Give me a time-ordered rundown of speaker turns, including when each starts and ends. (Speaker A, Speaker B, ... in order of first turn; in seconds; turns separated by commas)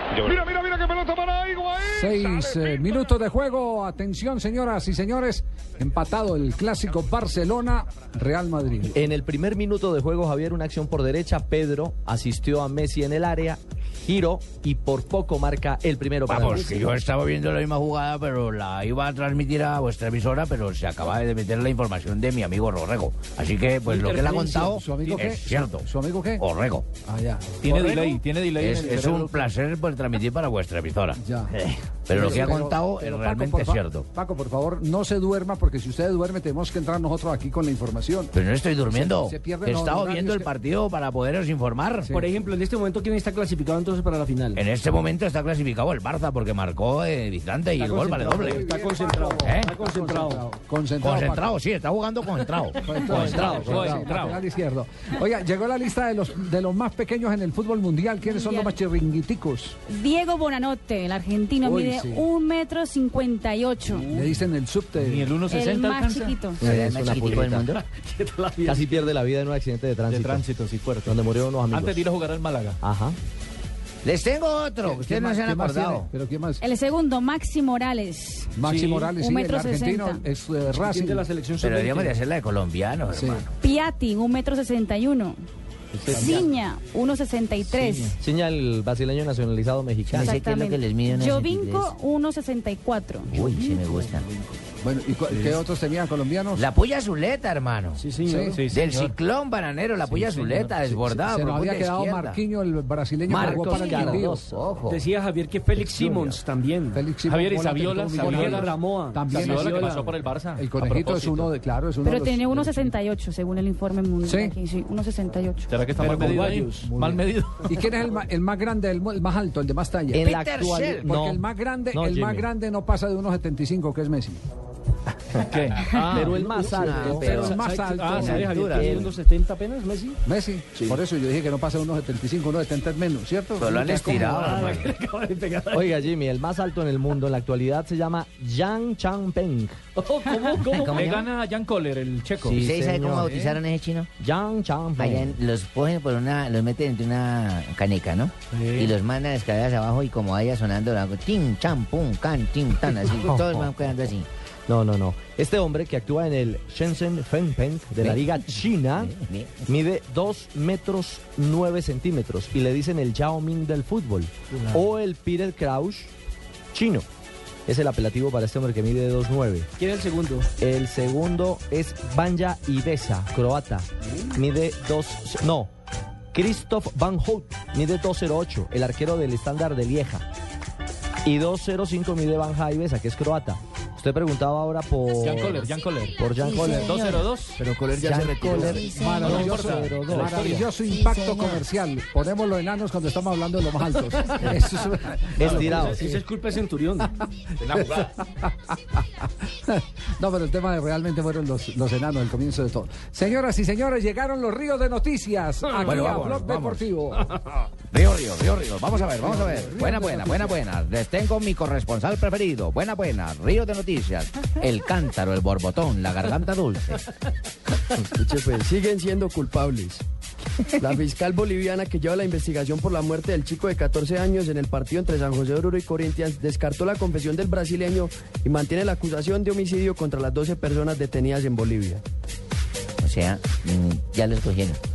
Speaker A: 0.2-3.0, Speaker B: 1.9-8.9, Speaker C: 8.9-16.8, Speaker D: 16.3-26.9, Speaker E: 23.9-24.8, Speaker B: 24.1-26.4, Speaker B: 27.0-28.1, Speaker F: 27.6-29.5, Speaker D: 28.6-34.1, Speaker B: 31.2-31.5, Speaker B: 32.1-38.3, Speaker D: 38.3-42.1, Speaker B: 38.9-40.5, Speaker E: 42.1-44.6, Speaker D: 44.5-48.7, Speaker B: 47.8-51.5, Speaker E: 47.8-50.5, Speaker D: 49.4-49.8, Speaker D: 51.0-53.8, Speaker B: 52.8-59.8, Speaker F: 53.0-54.4, Speaker E: 53.5-53.8, Speaker G: 58.2-58.8, Speaker G: 59.9-64.1, Speaker B: 61.6-62.2, Speaker F: 63.9-66.4, Speaker B: 64.1-65.3, Speaker G: 65.5-66.6, Speaker C: 66.6-67.7, Speaker H: 66.6-67.8, Speaker E: 67.3-69.1, Speaker C: 68.6-70.4, Speaker F: 70.1-72.8, Speaker C: 71.0-72.0, Speaker C: 72.8-73.2, Speaker D: 74.0-76.1, Speaker B: 74.8-76.6, Speaker G: 76.6-78.5, Speaker B: 78.5-81.2, Speaker F: 78.7-79.1, Speaker G: 79.1-80.2, Speaker E: 80.7-82.2, Speaker D: 81.6-83.5, Speaker B: 83.1-83.4, Speaker G: 83.6-85.4, Speaker C: 86.0-86.4, Speaker G: 86.2-88.1, Speaker C: 88.2-90.3, Speaker H: 90.1-91.9, Speaker G: 90.2-93.3, Speaker H: 93.3-94.2, Speaker B: 93.6-96.6, Speaker D: 96.5-98.0, Speaker E: 98.0-98.6, Speaker B: 98.2-98.6, Speaker F: 98.5-99.1, Speaker D: 98.7-102.4, Speaker F: 100.0-100.9, Speaker B: 101.0-104.4, Speaker D: 103.3-105.0, Speaker C: 103.4-104.5, Speaker G: 103.7-104.1, Speaker E: 104.9-107.1, Speaker C: 106.0-106.3, Speaker B: 106.9-112.9, Speaker F: 107.2-111.5, Speaker E: 108.1-110.2, Speaker G: 112.0-115.8, Speaker B: 114.2-114.5, Speaker F: 115.7-117.9, Speaker E: 116.0-116.9, Speaker B: 116.1-120.3, Speaker D: 120.1-121.2, Speaker C: 120.2-122.5, Speaker B: 120.8-124.4, Speaker F: 125.4-126.4, Speaker C: 125.9-127.6, Speaker E: 126.1-130.2, Speaker B: 126.8-128.8, Speaker D: 127.0-127.5, Speaker F: 127.8-128.4, Speaker C: 128.2-129.1, Speaker D: 128.4-128.9, Speaker B: 130.2-134.7, Speaker D: 133.6-134.9, Speaker E: 133.8-136.0, Speaker C: 135.7-139.8, Speaker E: 139.9-141.2, Speaker H: 140.7-141.2, Speaker F: 140.9-142.6, Speaker H: 142.4-144.1, Speaker C: 142.5-143.4, Speaker C: 144.2-145.4, Speaker H: 145.0-154.3, Speaker F: 148.5-148.9, Speaker C: 153.3-153.7, Speaker C: 154.7-159.1, Speaker H: 158.9-159.7, Speaker C: 159.7-166.1, Speaker E: 164.5-164.8, Speaker C: 166.7-167.1, Speaker C: 167.7-169.7, Speaker E: 169.8-170.5, Speaker C: 170.6-175.7, Speaker C: 176.3-180.2, Speaker C: 181.2-186.9, Speaker F: 185.2-187.6, Speaker H: 186.4-187.3, Speaker I: 187.6-188.8, Speaker C: 188.0-190.6, Speaker B: 188.6-196.1, Speaker H: 188.8-189.2, Speaker F: 189.2-190.6, Speaker H: 190.9-191.6, Speaker C: 195.4-196.2, Speaker E: 195.4-197.1, Speaker B: 197.6-198.7, Speaker B: 199.6-207.3, Speaker D: 205.8-206.8, Speaker D: 207.9-217.0, Speaker B: 209.1-210.6, Speaker I: 218.2-220.0, Speaker I: 220.8-232.0, Speaker H: 233.0-234.8